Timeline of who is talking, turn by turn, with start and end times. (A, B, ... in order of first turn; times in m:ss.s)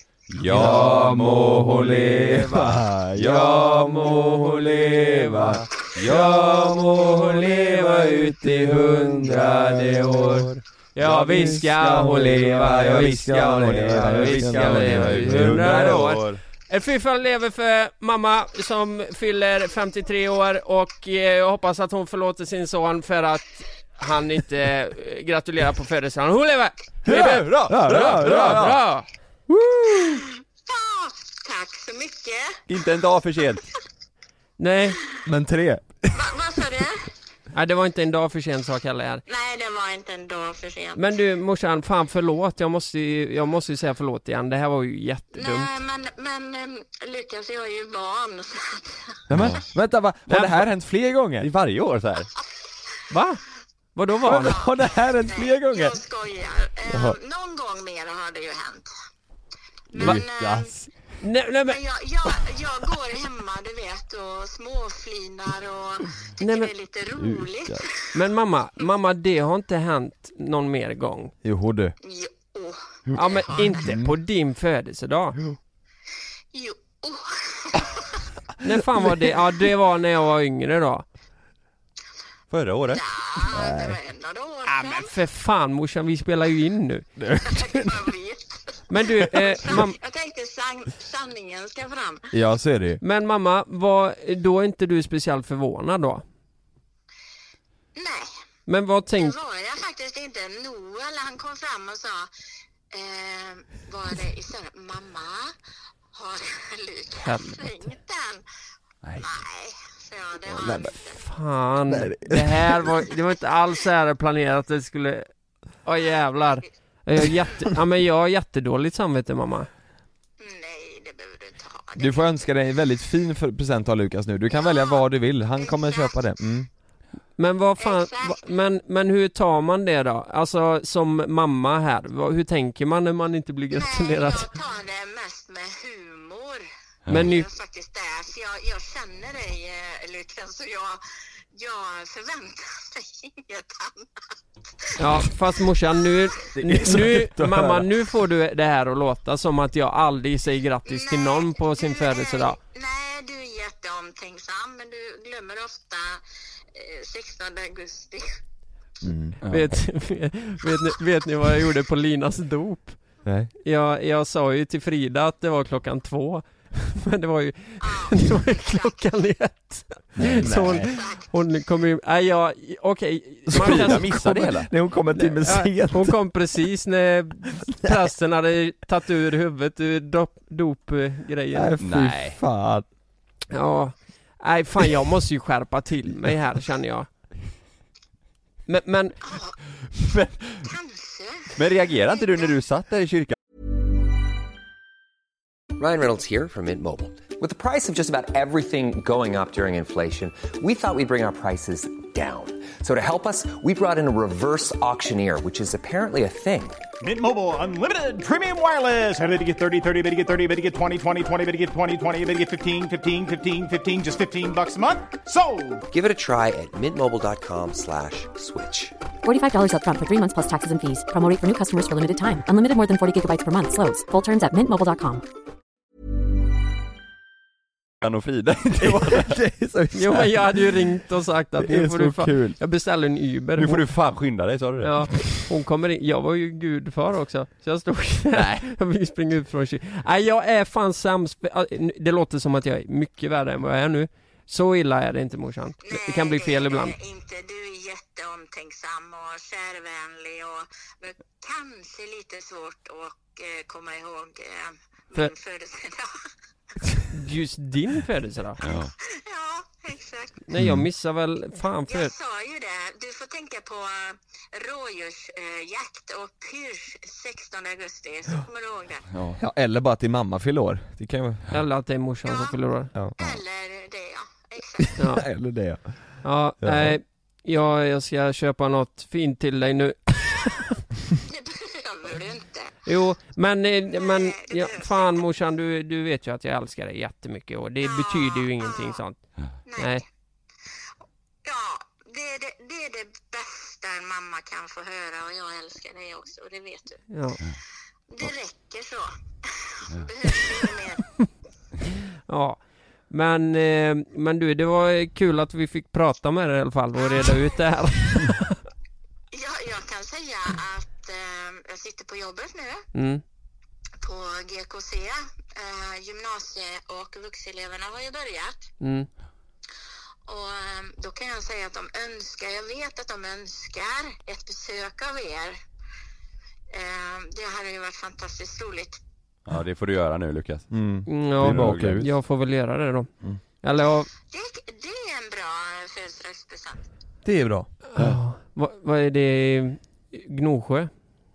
0:00.3-0:02.4 A
0:00.4-0:06.2 B
0:03.2-0:03.5 A
0:03.2-0:29.1 C
0:06.0-0:06.8 A
0:07.0-0:10.5 B
0:11.0-0:16.1 B
0:13.7-0:16.4 A
0:27.1-0:28.8 A
0:27.1-0:28.8 B
0:29.5-0:30.2 B
0:30.1-0:32.6 D
0:32.7-0:33.7 A
0:34.6-0:35.0 C
0:35.2-0:36.8 B
0:36.1-0:37.1 D
0:37.5-0:39.2 C
0:39.3-0:41.0 D
0:41.0-0:45.7 C
0:45.4-0:49.0 D
0:49.3-0:51.5 B
0:51.4-0:52.3 A
0:53.1-0:53.4 C
0:54.0-0:54.6 C
0:54.2-0:56.0 B
0:54.3-0:58.9 D
0:56.9-0:57.2 B
0:59.9-1:00.7 D
0:59.9-1:00.9 B
1:01.2-1:01.8 C
1:01.7-1:07.9 D
1:06.4-1:06.7 C
1:07.1-1:07.9 B
1:08.1-1:11.3 C
1:11.4-1:12.0 B
1:12.0-1:13.8 D
1:13.2-1:15.4 C
1:13.8-1:14.1 B
1:16.5-1:18.2 D
1:18.6-1:21.1 C
1:22.5-1:23.0 A
1:22.9-1:25.1 D
1:23.5-1:24.0 B
1:24.7-1:27.1 C
1:27.2-1:28.1 B
1:27.4-1:32.3 D
1:28.9-1:30.0 C
1:32.3-1:33.0 B
1:33.0-1:36.2 C
1:38.0-1:38.3 D
1:38.7-1:39.4 C
1:39.2-1:42.3 D
1:42.9-1:45.5 D
1:46.1-1:48.4 D
1:47.1-1:47.9 C
1:49.2-1:51.2 D
1:50.5-1:51.0 B
1:51.0-1:55.3 C
1:51.9-1:52.9 B
1:55.8-1:59.7 C
2:00.4-2:02.3 D
2:02.0-2:06.7 B
2:04.5-2:05.0 D
2:05.6-2:06.2 D
2:07.4-2:14.5 C
2:07.8-2:08.5 D
2:13.7-2:21.0 D
2:17.1-2:17.5 C
2:21.5-2:24.1 D
2:25.0-2:32.6 C
2:26.6-2:27.9 B
2:30.9-2:36.2 D
2:36.7-2:38.3 D
2:39.0-2:39.4 B
2:39.4-2:39.8 A
2:39.4-2:54.1 C
2:43.2-2:43.5 B
2:47.8-2:49.0 D
2:50.2-2:50.9 B
2:50.8-2:51.3 D
2:53.5-2:56.2 B
2:53.5-2:54.7 A
2:55.1-3:01.8 C
2:57.7-2:58.0 B
3:01.5-3:02.9 B
3:01.8-3:02.4 A
3:03.5-3:07.1 C
3:08.7-3:09.2 C
3:09.2-3:09.6 D
3:09.9-3:10.7 A
3:10.6-3:11.6 D
3:11.5-3:13.4 A
3:12.1-3:12.6 D
3:15.8-3:26.8 E
3:27.0-3:35.9 F
3:35.9-3:39.0 E
3:39.2-3:45.2 G
3:48.0-3:49.4 A
3:48.8-3:50.9 B
3:49.9-3:53.8 C
3:51.6-3:52.6 B
3:53.6-3:55.2 A
3:54.8-4:07.0 C
3:58.3-3:58.7 A
4:05.8-4:16.1 D
4:17.1-4:18.6 C
4:18.6-4:18.9 A
4:18.6-4:20.4 D
4:20.5-4:22.1 C
4:20.6-4:20.9 B
4:21.9-4:29.1 D
4:29.3-4:31.5 B
4:31.5-4:32.9 C
4:32.2-4:32.6 D
4:33.2-4:35.0 D
4:34.8-4:37.0 B
4:35.0-4:35.2 C
4:36.2-4:40.8 C
4:41.2-4:42.8 D
4:42.8-4:50.0 C
4:43.9-4:45.2 D
4:47.8-4:49.0 D
4:49.7-4:50.0 D
4:51.4-4:57.1 D
4:57.1-4:57.4 C
4:58.1-5:01.2 D
5:02.3-5:08.6 C
5:07.0-5:07.5 D
5:09.3-5:12.9 D
5:12.9-5:13.2 C
5:14.0-5:18.7 D
5:18.8-5:19.1 C
5:20.3-5:25.6 D
5:26.7-5:29.0 D
5:29.5-5:30.7 A
5:30.7-5:32.1 B
5:31.1-5:34.1 C
5:31.4-5:32.1 A
5:34.3-5:36.9 D
5:37.2-5:37.7 B
5:37.9-5:40.9 C